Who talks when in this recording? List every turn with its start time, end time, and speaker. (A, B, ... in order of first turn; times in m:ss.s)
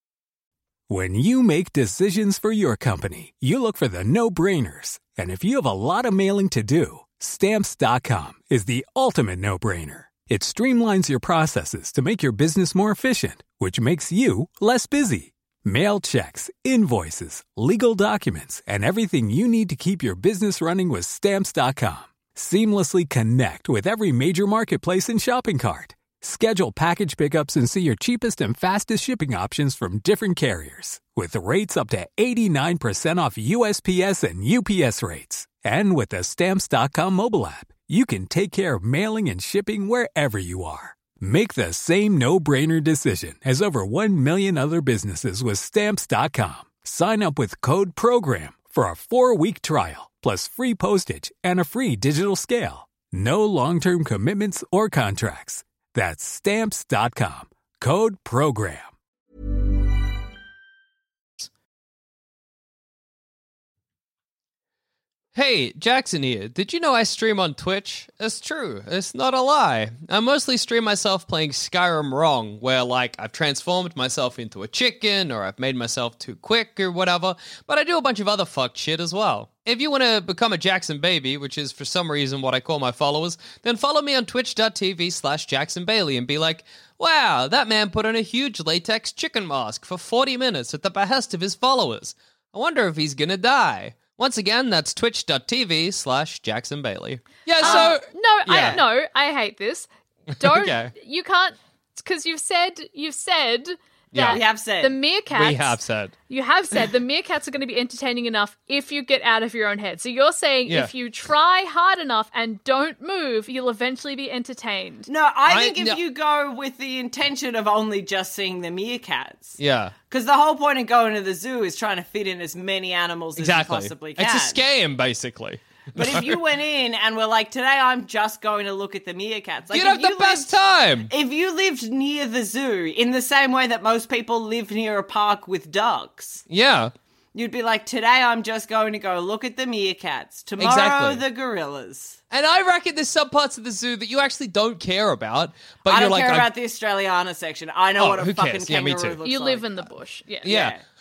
0:00.9-0:58.9 A
1:05.3-1:38.8 B
1:37.6-1:55.1 C
1:37.6-1:37.9 D
1:40.4-1:40.9 B
1:44.1-1:44.4 B
1:44.2-1:45.0 D
1:45.3-1:46.1 B
1:50.7-1:50.9 B
1:55.1-1:59.6 D
1:55.5-1:56.0 B
1:59.6-1:59.9 B
2:00.1-2:04.6 D
2:03.4-2:06.4 B
2:06.0-2:10.6 D
2:09.7-2:11.1 B
2:11.1-2:16.4 D
2:16.5-2:16.9 B
2:17.3-2:22.2 D
2:20.6-2:21.2 B
2:22.3-2:26.5 B
2:25.9-2:29.9 D
2:28.0-2:29.2 B
2:29.2-2:30.5 C
2:30.4-2:30.8 B
2:30.4-2:30.8 D